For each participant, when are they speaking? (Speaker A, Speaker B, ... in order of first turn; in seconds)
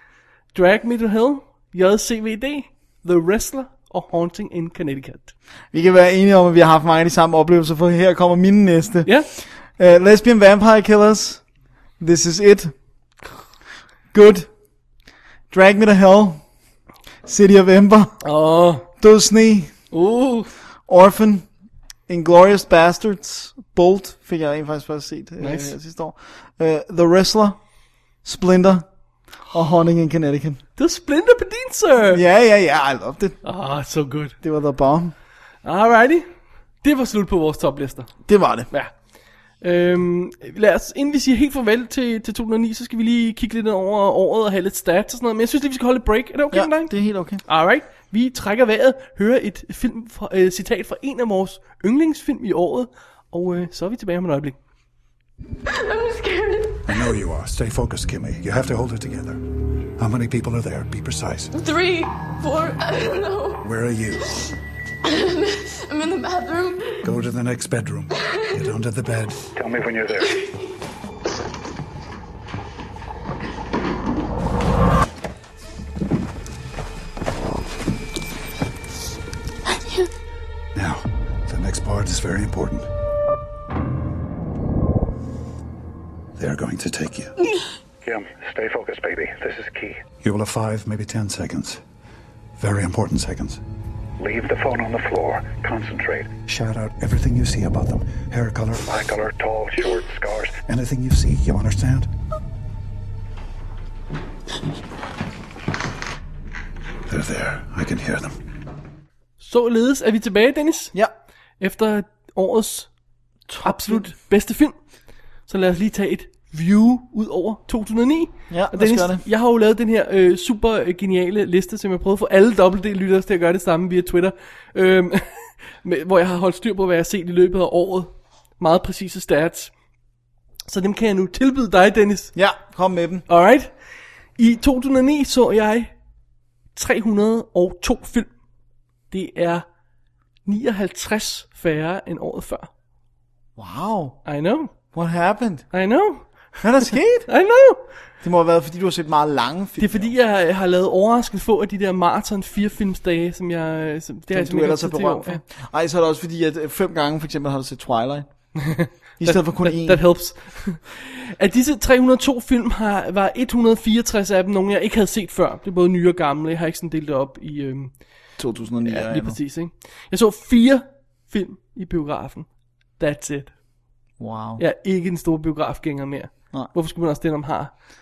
Speaker A: 0.5-5.3, 18.2-18.9, 19.9-20.5, 25.4-25.7, 30.8-32.2, 33.4-34.4, 35.6-36.3, 36.8-38.1, 39.6-54.5, 109.4-110.9, 111.6-112.9, 113.5-114.8, 115.5-129.7, 130.7-132.3, 133.3-133.8, 134.4-135.9, 136.8-138.3, 139.1-139.7, 140.5-142.7, 144.2-144.7, 145.7-147.9, 149.8-155.4, 158.6-167.9, 168.8-173.5, 174.6-177.8
Speaker B: 5.7-11.4, 12.0-12.7, 14.1-14.5, 15.5-16.4, 17.2-18.2, 19.0-19.7, 20.9-21.5, 22.1-27.6, 28.2-28.9, 29.5-30.6, 32.1-33.4, 34.4-35.1, 38.3-38.7, 46.5-47.4, 113.6-114.1, 118.5-119.2, 132.3-133.2, 143.6-144.2, 144.9-145.7, 146.6-147.3, 148.2-150.1, 154.3-158.3, 159.2-160.0, 168.4-169.4, 174.2-174.6
Speaker C: 55.7-57.1, 61.5-63.6, 65.0-67.1, 68.1-68.6, 70.2-70.7, 79.7-80.1
Speaker D: 56.9-59.4, 60.0-61.5, 63.6-64.4, 67.0-69.4, 80.8-82.9, 86.4-87.3, 90.2-91.8, 92.6-93.6, 96.5-98.9, 100.7-102.1, 107.1-108.3
Speaker E: 69.5-70.3, 88.0-90.0, 94.2-96.3, 98.9-100.6